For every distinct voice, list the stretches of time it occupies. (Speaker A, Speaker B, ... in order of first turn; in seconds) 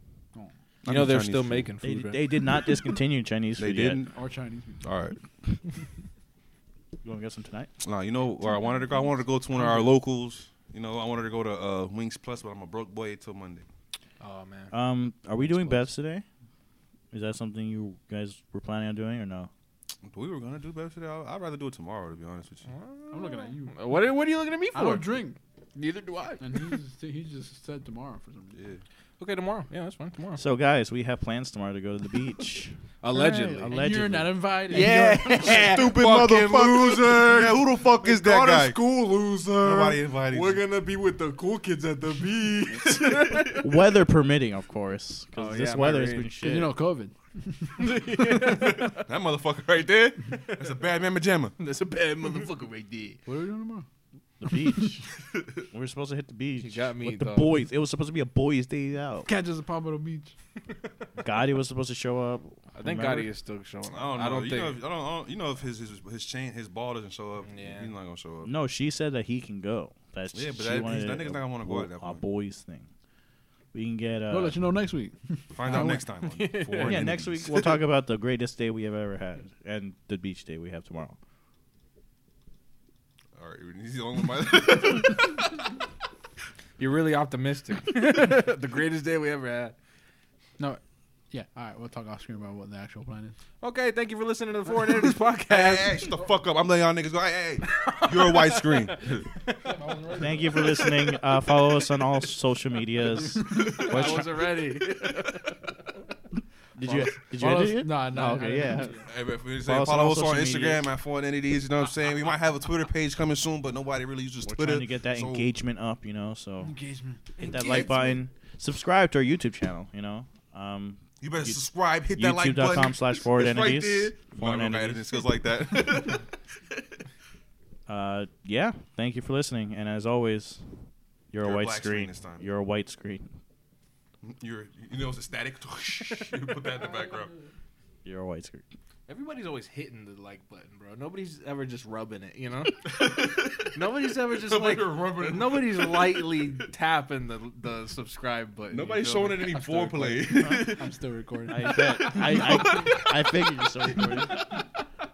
Speaker A: 0.8-1.7, 3.6-4.1, 4.8-5.2, 7.8-13.7, 20.0-22.7, 28.5-28.8, 35.5-38.8, 39.6-40.6, 48.5-51.5, 55.2-55.6, 63.9-68.5, 70.3-72.2, 75.5-77.6, 83.3-85.6, 95.5-99.3, 109.0-115.5, 121.2-127.0, 131.4-132.4, 134.2-137.3, 142.8-146.6, 148.7-150.9, 151.9-153.2
Speaker B: 0.9-2.4, 14.2-14.7, 15.4-15.9, 22.7-25.1, 25.8-26.7, 29.2-30.4, 33.0-33.8, 34.7-43.8, 45.4-46.3, 47.8-49.1, 51.6-53.2, 56.6-57.6, 62.7-64.8, 67.5-67.9, 76.2-77.7, 86.8-89.8, 93.6-96.2, 97.7-101.5, 103.5-105.8, 106.8-107.1, 117.4-118.2, 139.1-142.8, 143.7-150.3
Speaker C: 1.8-4.0, 7.0-7.7, 14.7-16.2, 17.1-19.5, 30.4-35.0, 43.5-46.8, 54.4-55.2, 55.7-59.3, 61.2-63.3, 68.4-72.9, 73.7-74.6, 76.8-81.2, 100.2-104.5, 106.8-109.1, 109.6-110.8, 114.5-116.8, 117.4-121.6, 122.2-125.2, 127.9-130.6, 131.3-133.3, 138.1-138.6, 151.5-154.6
Speaker D: 4.1-4.9, 23.1-23.8, 24.7-25.4, 26.4-28.6, 33.7-35.9, 46.4-48.7, 53.3-53.9, 59.3-60.3, 74.3-76.0, 91.3-93.4, 99.7-100.8, 103.5-103.9, 106.9-109.0, 116.6-117.2, 150.8-151.8